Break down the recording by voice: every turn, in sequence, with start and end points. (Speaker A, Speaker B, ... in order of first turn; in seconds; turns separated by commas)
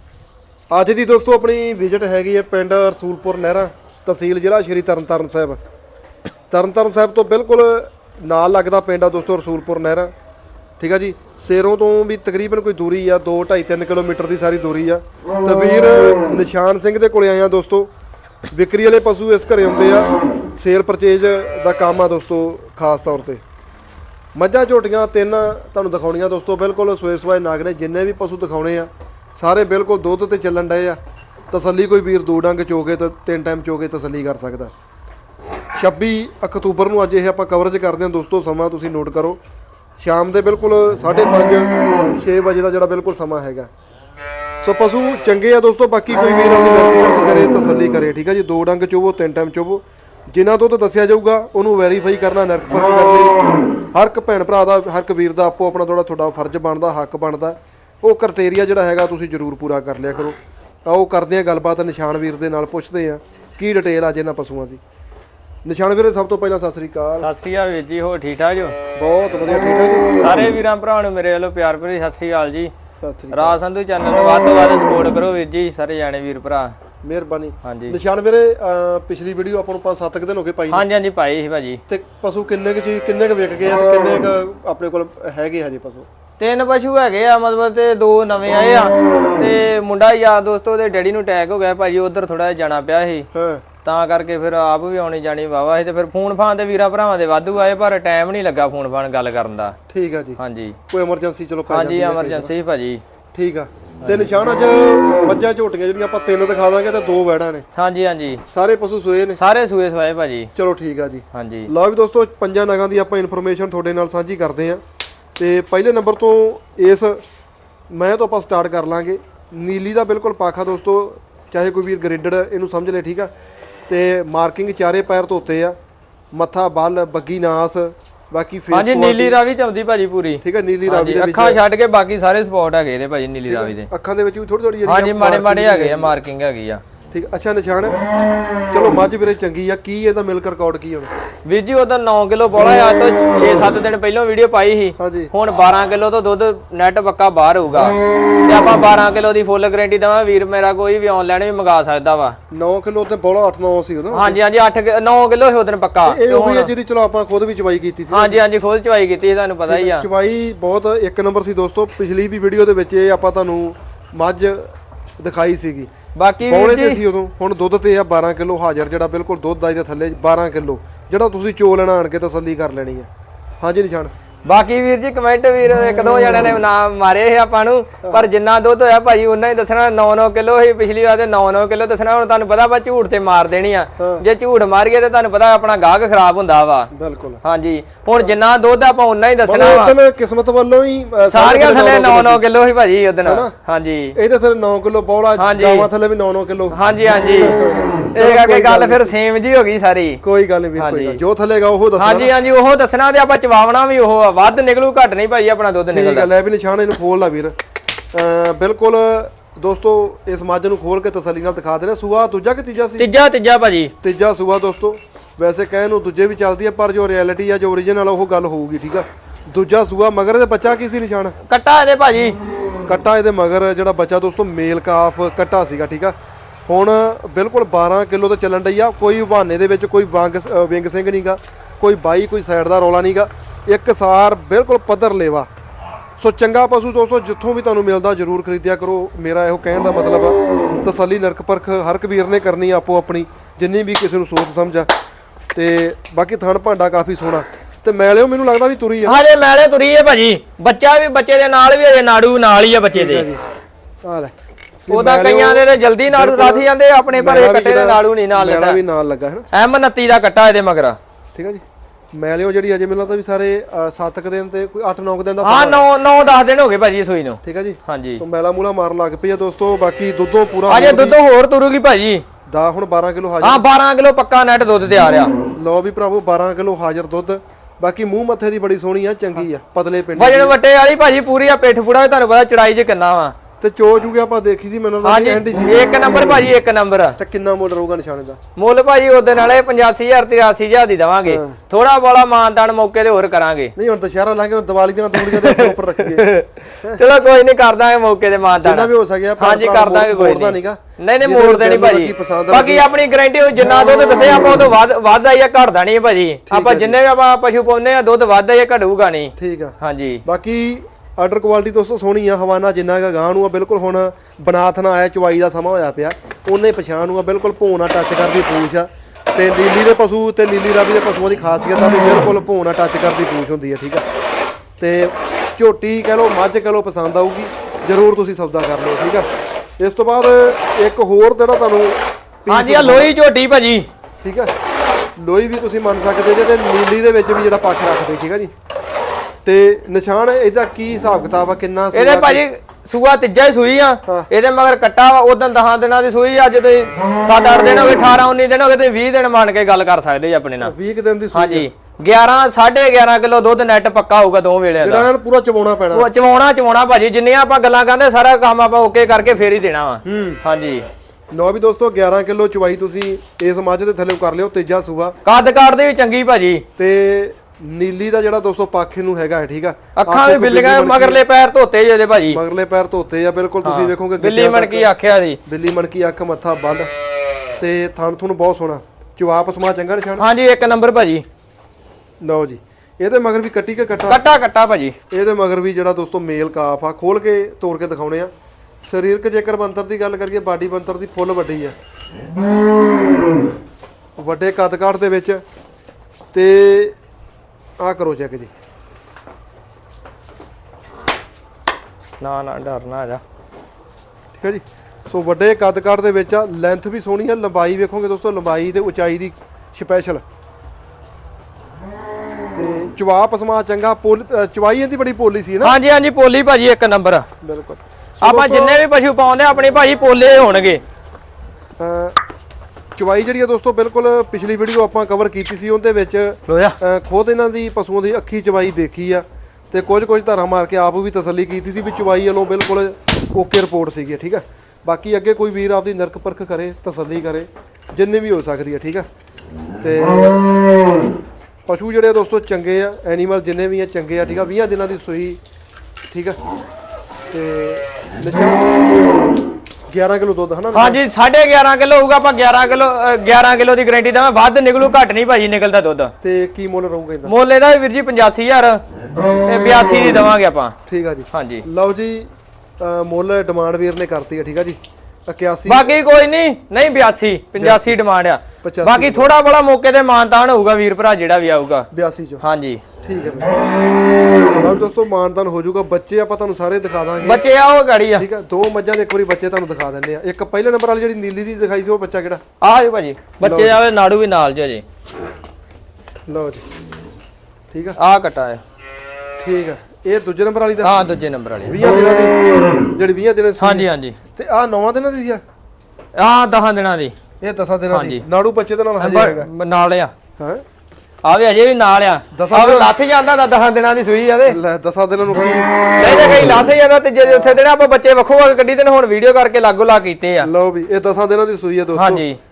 Speaker A: 0.7-5.6, Speaker A: 6.5-10.1, Speaker A: 10.8-17.9, Speaker A: 18.5-23.4, Speaker A: 24.3-31.0, Speaker A: 31.5-34.7, Speaker A: 35.7-39.4, Speaker A: 40.0-43.7, Speaker A: 44.6-53.4, Speaker A: 53.9-64.8, Speaker A: 65.6-67.3, Speaker B: 67.2-68.8, Speaker A: 68.9-70.2, Speaker B: 70.2-72.7, Speaker A: 73.0-73.5, Speaker B: 73.3-76.8, Speaker A: 77.0-80.9, Speaker B: 77.6-78.0, Speaker B: 80.7-81.8, Speaker A: 81.9-86.1, Speaker B: 86.4-93.3, Speaker A: 93.3-93.6, Speaker B: 93.8-99.8, Speaker A: 99.9-100.4, Speaker B: 100.4-100.8, Speaker A: 100.9-102.5, Speaker B: 101.7-103.0, Speaker A: 103.3-107.7, Speaker B: 107.8-108.4, Speaker A: 108.5-109.4, Speaker B: 109.4-110.5, Speaker A: 110.5-114.8, Speaker B: 111.3-111.7, Speaker A: 115.4-117.2, Speaker A: 117.9-123.3, Speaker A: 123.9-125.8, Speaker A: 126.3-129.4, Speaker B: 128.7-133.9, Speaker A: 130.4-131.6, Speaker A: 133.4-136.1, Speaker B: 134.8-136.8, Speaker A: 137.1-138.0, Speaker A: 138.7-141.1, Speaker B: 141.4-152.4, Speaker A: 145.0-145.3, Speaker A: 152.5-154.4, Speaker B: 154.1-156.7, Speaker A: 156.0-158.4, Speaker B: 158.1-160.0, Speaker A: 159.7-165.9, Speaker B: 166.1-167.0, Speaker A: 166.4-173.1, Speaker A: 173.6-174.1, Speaker B: 174.4-186.9, Speaker A: 184.0-184.2, Speaker A: 186.9-187.4, Speaker B: 187.4-189.9, Speaker A: 189.5-192.4, Speaker B: 191.3-194.1, Speaker A: 193.2-193.5, Speaker A: 194.1-196.8, Speaker B: 195.4-195.9, Speaker B: 196.7-197.6, Speaker A: 197.4-199.1, Speaker B: 198.1-200.2, Speaker A: 200.2-202.3, Speaker B: 200.8-201.2, Speaker B: 202.0-206.3, Speaker A: 205.9-207.5, Speaker A: 208.1-213.1, Speaker B: 213.0-213.9, Speaker A: 214.0-221.3, Speaker B: 221.5-222.4, Speaker A: 222.8-226.1, Speaker A: 226.7-235.5, Speaker A: 236.2-244.9, Speaker A: 245.5-249.2, Speaker B: 249.0-253.3, Speaker A: 252.9-253.4, Speaker A: 254.0-254.3, Speaker A: 254.8-259.4, Speaker B: 254.9-258.8, Speaker B: 259.5-261.0, Speaker A: 261.3-261.6, Speaker A: 262.1-265.9, Speaker B: 265.4-268.2, Speaker A: 267.4-271.2, Speaker B: 270.7-272.2, Speaker A: 272.5-273.6, Speaker B: 273.4-275.3, Speaker A: 275.5-280.6, Speaker B: 280.1-283.3, Speaker A: 283.6-285.9, Speaker B: 285.0-287.2, Speaker A: 287.2-288.4, Speaker B: 288.6-293.7, Speaker A: 291.3-291.6, Speaker A: 293.8-296.3, Speaker B: 295.2-310.2, Speaker A: 298.6-302.9, Speaker A: 306.5-307.0, Speaker A: 309.4-324.0, Speaker A: 324.8-329.3, Speaker A: 329.8-333.1, Speaker B: 332.5-333.9, Speaker A: 334.2-334.5, Speaker A: 335.2-338.5, Speaker A: 339.4-342.4, Speaker B: 341.9-350.7, Speaker A: 350.6-351.7, Speaker B: 351.3-355.1, Speaker A: 354.8-356.1, Speaker B: 355.9-360.8, Speaker A: 360.0-360.4, Speaker A: 361.3-365.2, Speaker B: 365.2-366.6, Speaker A: 366.8-371.2, Speaker B: 369.9-372.4, Speaker A: 372.3-374.9, Speaker B: 373.6-375.4, Speaker A: 375.4-376.9, Speaker A: 377.6-380.2, Speaker B: 380.2-381.2, Speaker A: 382.2-384.2, Speaker B: 384.1-384.9, Speaker A: 385.1-388.3, Speaker A: 388.9-391.7, Speaker A: 394.2-395.4, Speaker A: 396.3-396.9, Speaker A: 397.8-398.5, Speaker B: 402.2-403.2, Speaker A: 404.4-410.2, Speaker A: 412.5-415.8, Speaker B: 415.6-417.2, Speaker A: 417.4-418.8, Speaker B: 418.2-420.8, Speaker A: 421.8-422.2, Speaker A: 422.9-439.1, Speaker B: 426.5-426.8, Speaker A: 439.8-440.4, Speaker A: 441.7-445.4, Speaker A: 446.1-446.4, Speaker A: 447.3-448.7, Speaker A: 449.9-451.0, Speaker B: 450.7-456.1, Speaker A: 456.2-457.3, Speaker B: 457.2-460.7, Speaker A: 460.9-462.3, Speaker B: 461.3-461.6, Speaker A: 462.8-465.9, Speaker B: 465.7-471.9, Speaker A: 467.6-468.0, Speaker A: 468.6-469.3, Speaker A: 471.9-472.4, Speaker B: 472.4-472.8, Speaker A: 473.0-473.5, Speaker A: 474.4-477.4, Speaker B: 477.2-478.2, Speaker A: 478.1-482.4, Speaker B: 482.6-484.8, Speaker A: 483.4-483.8, Speaker A: 486.3-486.6, Speaker A: 487.7-488.0, Speaker B: 488.0-488.6, Speaker A: 489.4-491.0, Speaker B: 490.8-491.8, Speaker A: 491.6-495.4, Speaker B: 493.6-494.2, Speaker B: 496.1-497.1, Speaker A: 497.4-499.5, Speaker B: 497.9-498.2, Speaker B: 499.0-500.1, Speaker B: 501.2-504.6, Speaker A: 502.3-502.9, Speaker A: 504.4-505.7, Speaker B: 506.0-510.5, Speaker A: 510.4-512.2, Speaker B: 511.9-512.4